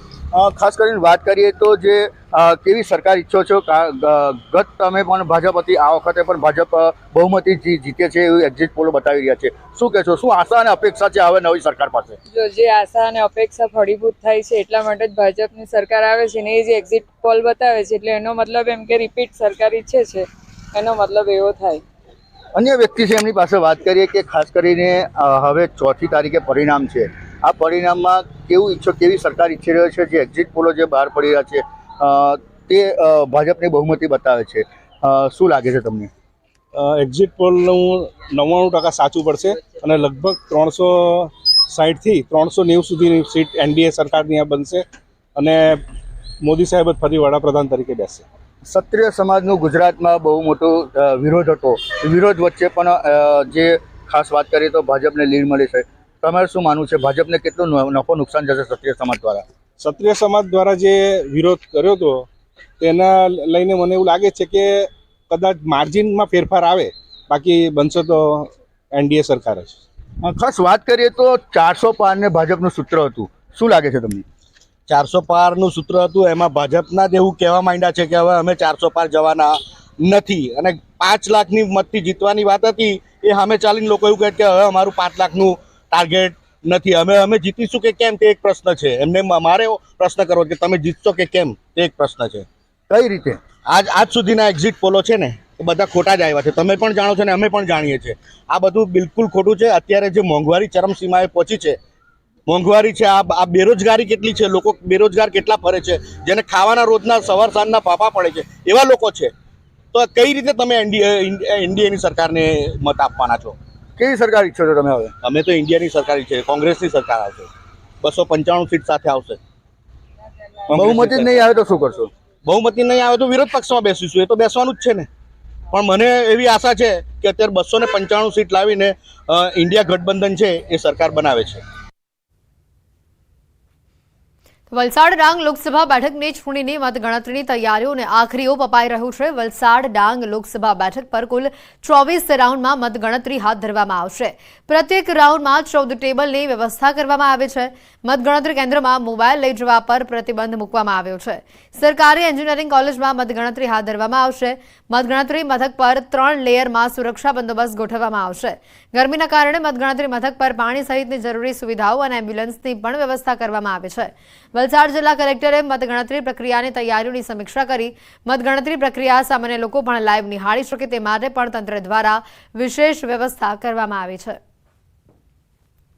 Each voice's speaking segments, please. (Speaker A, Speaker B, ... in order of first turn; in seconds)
Speaker A: 0.3-12.2, 22.6-36.1, 48.7-59.4, 70.2-74.2, 92.9-93.4, 114.0-115.1, 120.7-122.1
Speaker B: 12.3-21.8
Speaker C: 36.8-44.8, 45.4-45.8, 46.4-48.2, 59.8-62.3, 62.8-69.8
Speaker D: 74.9-92.5, 93.7-101.8, 102.5-109.3, 109.9-113.6, 115.2-117.5, 118.0-119.4, 120.7-121.5, 122.5-125.1, 125.7-131.6
Speaker E: 134.7-174.4